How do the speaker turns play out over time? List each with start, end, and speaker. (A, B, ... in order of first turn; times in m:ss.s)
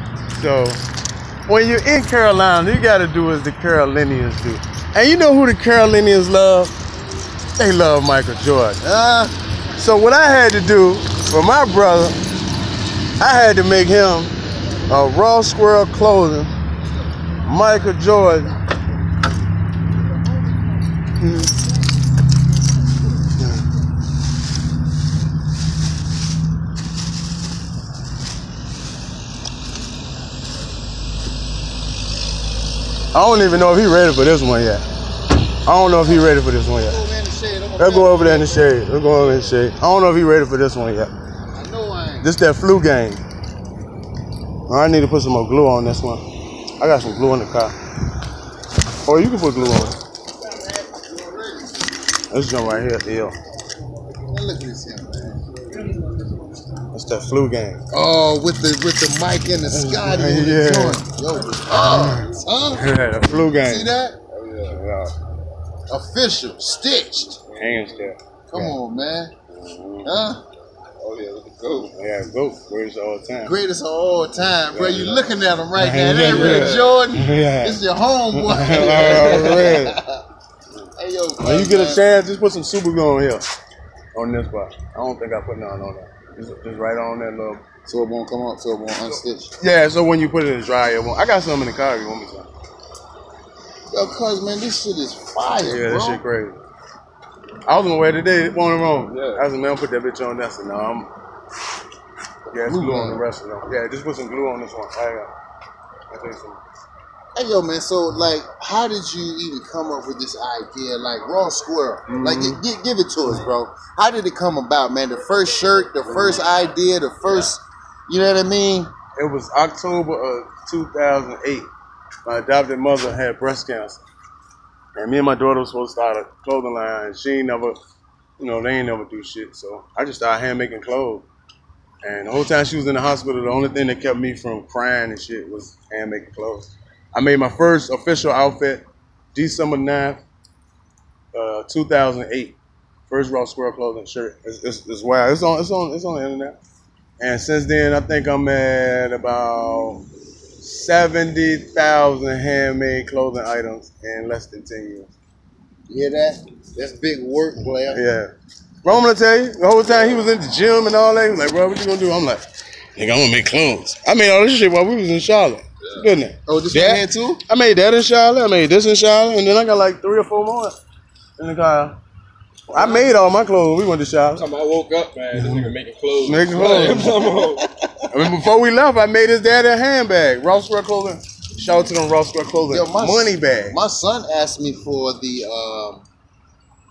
0:00.3-0:00.8 A
0:01.5-0:06.7 A
0:07.6-0:08.8 A
0:08.8-0:09.3 B
0:09.7-0:12.2 A
0:13.2-0:16.5 A
0:17.4-0:18.6 A
0:21.2-0:21.5 A
0:33.1-0:34.8 A
0:35.6-0:37.0 A
0:35.9-0:39.4 B
0:37.8-0:41.1 A
0:41.5-0:42.3 B
0:42.2-0:43.2 A
0:44.7-0:46.2 A
0:46.8-0:47.8 A
0:49.0-0:50.0 A
0:50.5-0:51.9 B
0:52.3-0:53.3 A
0:54.1-0:55.9 B
0:56.9-0:57.8 A
0:57.9-1:02.9 B
0:59.7-1:01.0 A
1:01.8-1:03.9 A
1:03.5-1:04.2 B
1:04.3-1:04.8 C
1:04.6-1:05.1 A
1:05.9-1:07.4 B
1:07.5-1:07.8 C
1:07.5-1:08.8 A
1:08.5-1:09.3 B
1:09.5-1:10.1 A
1:10.0-1:10.4 B
1:11.0-1:11.7 C
1:11.7-1:13.5 A
1:13.4-1:20.2 B
1:14.7-1:17.8 A
1:16.2-1:16.9 C
1:18.3-1:20.0 A
1:19.2-1:19.6 C
1:20.9-1:22.0 B
1:21.4-1:23.4 A
1:24.1-1:27.6 A
1:27.8-1:29.5 B
1:29.6-1:32.5 A
1:33.9-1:36.2 B
1:35.6-1:36.6 A
1:37.6-1:41.1 A
1:42.5-1:45.3 A
1:42.6-1:43.2 B
1:46.1-1:46.6 A
1:47.3-1:58.9 B
1:52.0-1:52.6 A
1:59.2-2:01.7 A
2:02.2-2:04.0 A
2:04.9-2:07.8 A
2:08.4-2:11.2 A
2:12.0-2:20.2 A
2:21.3-2:22.6 A
2:23.1-2:26.6 A
2:27.2-2:30.0 A
2:30.6-2:35.1 A
2:35.9-2:38.0 B
2:37.6-2:38.3 A
2:38.8-2:42.4 A
2:43.0-2:50.7 A
2:46.4-2:47.4 B
2:51.4-2:52.0 A
2:52.7-2:54.5 A
2:52.7-2:53.1 C
2:54.3-2:57.7 C
2:55.4-2:55.7 A
2:56.2-2:57.2 A
2:57.1-2:57.7 B
2:58.0-3:03.8 A
3:02.7-3:06.0 B